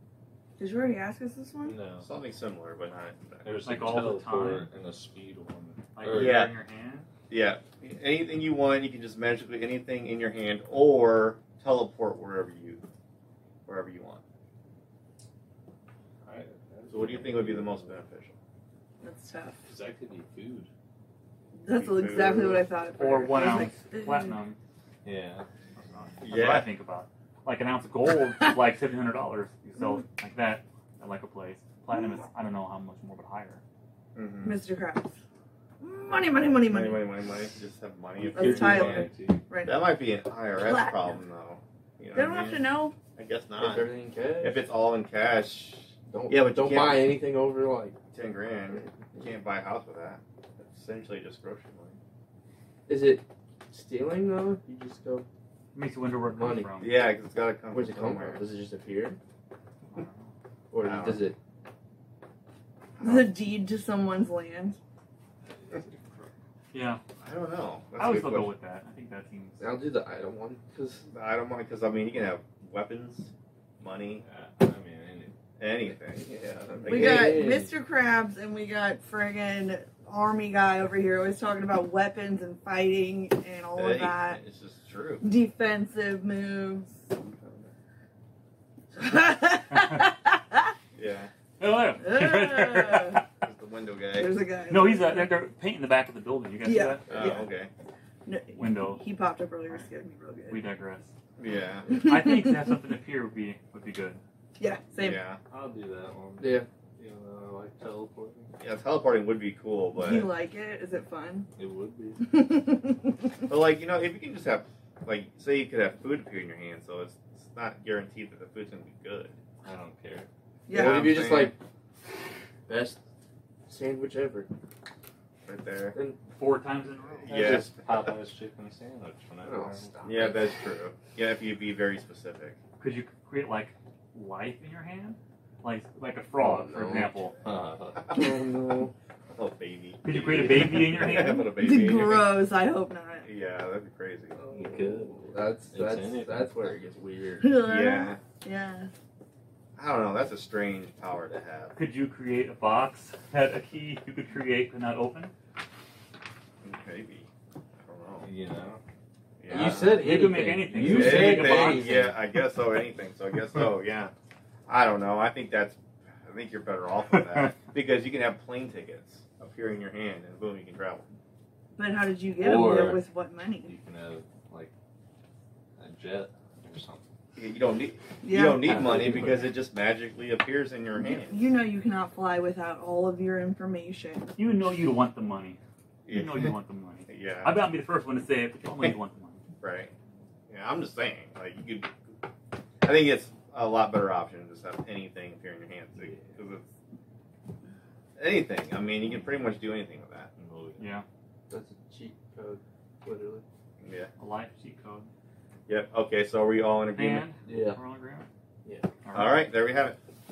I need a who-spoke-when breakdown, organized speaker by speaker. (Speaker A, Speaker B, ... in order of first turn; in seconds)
Speaker A: 0.6-1.8, 19.0-19.6, 21.6-24.3, 34.4-35.2, 35.8-37.1, 38.3-39.9, 40.6-41.0, 42.1-42.9, 63.0-64.8, 76.8-84.4, 85.2-87.1, 88.9-90.7, 92.0-93.2, 94.1-95.3, 96.6-97.5, 98.2-100.6, 101.9-102.7, 104.6-105.2, 109.9-111.5, 112.2-113.3, 120.7-121.1, 141.0-143.3, 147.4-148.9, 171.7-173.7, 178.2-179.2, 181.0-184.4
Speaker B: 1.7-2.0, 3.4-6.4, 16.2-17.8, 19.7-20.7, 25.0-25.4, 38.3-39.4, 65.7-66.3, 74.2-75.3, 105.5-108.5, 111.7-112.2, 119.6-120.3, 127.3-130.2, 137.4-138.1, 144.5-145.2, 145.7-146.6, 158.2-158.8, 172.4-173.0, 173.7-174.7, 175.8-177.0, 200.4-200.8
Speaker C: 2.0-3.5, 6.1-6.5, 7.3-12.8, 13.7-14.2, 16.9-18.4, 21.7-22.7, 26.2-26.7, 34.1-34.6, 36.6-39.1, 39.6-47.2, 48.1-52.0, 56.8-58.4, 60.8-61.3, 63.0-63.3, 67.2-68.5, 71.1-74.2, 75.6-77.4, 83.7-85.2, 87.2-87.7, 90.9-91.3, 93.4-94.3, 97.1-97.7, 101.4-101.9, 105.0-105.4, 108.6-110.3, 113.5-119.4, 120.7-121.5, 125.4-126.0, 127.2-128.0, 130.0-132.6, 139.3-142.3, 143.2-144.4, 147.6-148.2, 149.8-151.7, 156.6-157.3, 157.8-158.3, 159.4-160.1, 160.8-164.1, 164.7-171.1, 177.3-181.5, 186.1-186.5, 187.1-187.6, 189.6-189.9, 190.5-192.1, 192.8-196.7, 198.2-200.3, 203.8-204.1, 205.7-207.2, 209.1-210.0
Speaker D: 3.6-4.7, 5.9-7.1, 23.0-24.6, 25.8-33.6, 55.7-57.1, 59.8-60.3, 66.7-67.0, 68.0-69.7, 89.7-90.0, 91.6-93.3, 94.7-97.0, 98.5-99.0, 100.5-101.1, 101.9-104.2, 126.3-127.6, 132.8-137.3, 140.0-141.5, 151.7-155.3, 159.8-162.2, 178.7-179.5, 184.4-189.4, 200.8-201.1, 204.2-205.1, 206.9-208.3, 209.0-209.5
Speaker E: 43.6-44.6, 46.1-48.0, 52.9-55.2, 56.2-56.7, 57.7-59.2, 60.7-61.4, 69.6-71.1, 76.2-77.7, 106.4-106.7, 120.7-121.6, 122.7-123.0, 123.7-124.5, 129.4-130.4, 136.4-137.2, 138.1-138.9, 144.4-147.6, 159.5-162.1, 201.5-203.4, 207.5-207.8